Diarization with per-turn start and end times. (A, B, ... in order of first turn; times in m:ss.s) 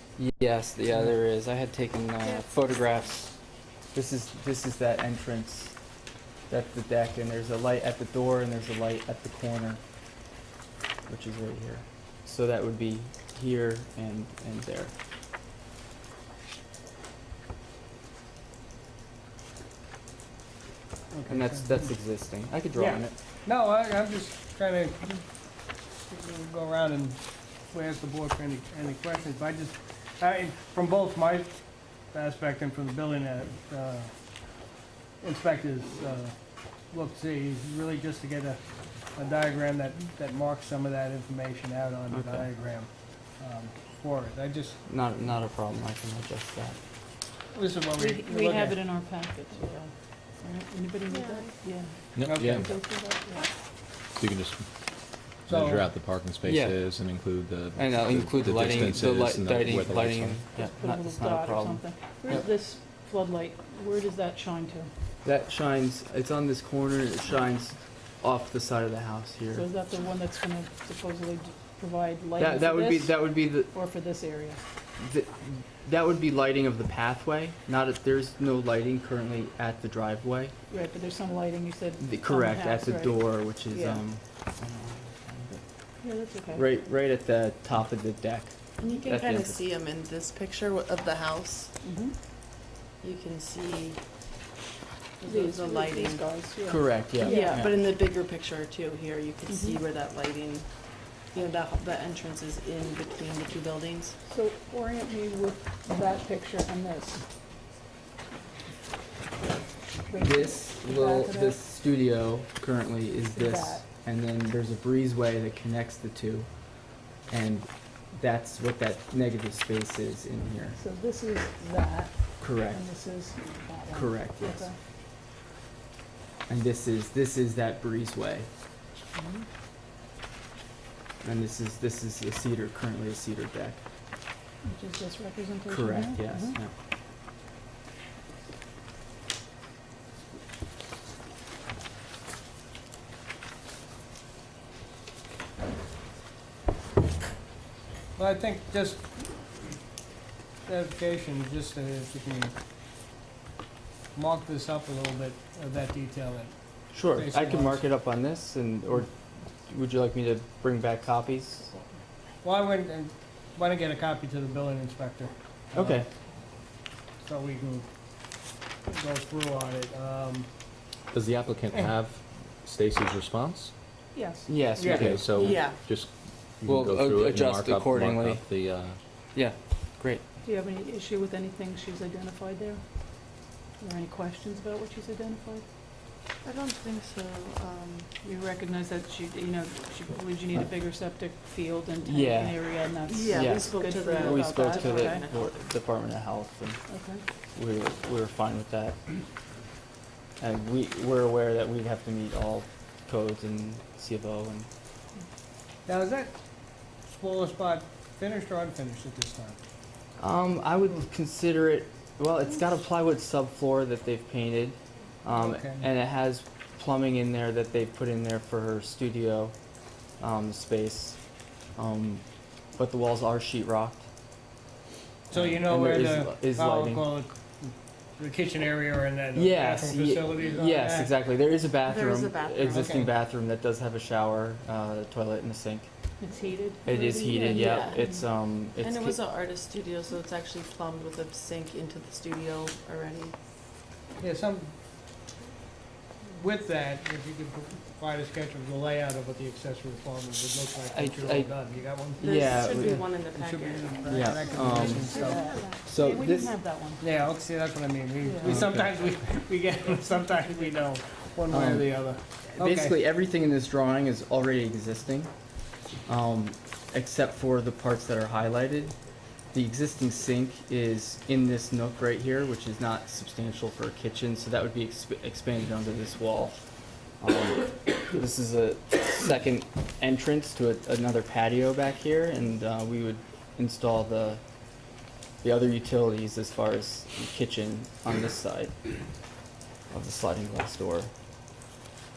0:00.2-0:03.4 A
0:03.9-0:05.8 A
0:06.5-0:09.8 A
0:11.1-0:14.9 A
0:21.1-0:21.9 B
0:21.3-0:23.1 A
0:22.7-0:25.2 B
0:26.0-0:34.1 B
0:35.2-0:44.8 B
0:42.1-0:42.5 A
0:44.8-0:46.8 A
0:47.5-0:48.8 B
0:48.0-0:53.5 C
0:51.1-0:51.7 D
0:52.1-0:52.7 E
0:52.2-0:52.7 B
0:54.1-0:54.7 E
0:55.4-1:00.4 E
0:55.5-0:55.9 B
0:56.4-0:56.8 A
0:57.8-1:02.5 A
1:00.5-1:04.9 C
1:05.2-1:09.6 A
1:09.5-1:14.6 C
1:12.4-1:13.7 A
1:15.0-1:20.5 A
1:20.7-1:24.0 C
1:22.0-1:29.6 A
1:26.0-1:26.6 C
1:28.8-1:31.7 D
1:31.8-1:32.2 C
1:33.0-1:34.0 D
1:35.2-1:36.3 D
1:35.2-1:37.7 C
1:36.6-1:37.7 A
1:37.1-1:44.2 D
1:39.5-1:39.8 C
1:44.3-1:47.2 C
1:50.1-1:51.6 C
1:50.2-1:56.5 A
1:53.3-1:53.8 C
1:57.3-2:00.8 A
2:00.7-2:04.8 C
2:02.4-2:02.8 A
2:03.9-2:04.7 A
2:06.5-2:08.5 A
2:09.1-2:09.4 C
2:11.2-2:13.8 A
2:14.6-2:16.6 C
2:15.7-2:16.7 A
2:28.2-2:29.6 B
2:30.6-2:32.6 B
2:34.1-2:37.8 B
2:36.9-2:39.1 A
2:39.7-2:41.7 A
2:42.4-2:46.0 B
2:45.7-2:46.1 A
2:47.2-2:47.9 B
2:48.8-2:50.5 B
2:51.1-2:53.7 E
2:54.1-2:54.7 C
2:54.4-2:55.7 A
2:54.8-2:59.0 E
2:54.8-2:55.1 B
2:55.3-2:55.8 D
2:56.6-2:58.5 A
2:59.3-3:00.2 A
3:00.4-3:05.6 C
3:06.4-3:08.2 D
3:08.2-3:15.2 C
3:12.0-3:16.8 A
3:13.1-3:15.6 D
3:16.9-3:17.2 C
3:17.6-3:19.2 A
3:20.4-3:24.7 A
3:25.8-3:26.3 B
3:27.0-3:29.6 B
3:30.2-3:39.5 A
3:35.3-3:35.8 B
3:40.2-3:41.2 A
3:41.7-3:42.2 A
3:42.8-3:44.1 A
3:45.3-3:47.1 A
3:45.3-3:51.1 B
3:49.3-3:55.9 A
3:51.9-3:53.0 D
3:52.6-3:53.0 B
3:56.2-3:58.3 C
3:56.8-3:59.2 A
3:56.9-3:58.0 D
3:58.8-4:03.4 D
4:04.2-4:04.8 B
4:06.3-4:15.6 B
4:10.9-4:13.1 A
4:12.2-4:15.8 D
4:14.1-4:15.1 A
4:14.7-4:17.0 C
4:15.8-4:16.6 A
4:17.0-4:23.0 B
4:18.2-4:18.6 D
4:18.4-4:19.0 A
4:21.5-4:25.3 A
4:26.0-4:29.0 A
4:29.5-4:36.7 A
4:37.2-4:44.4 A
4:45.4-4:48.7 A
4:49.9-4:51.1 A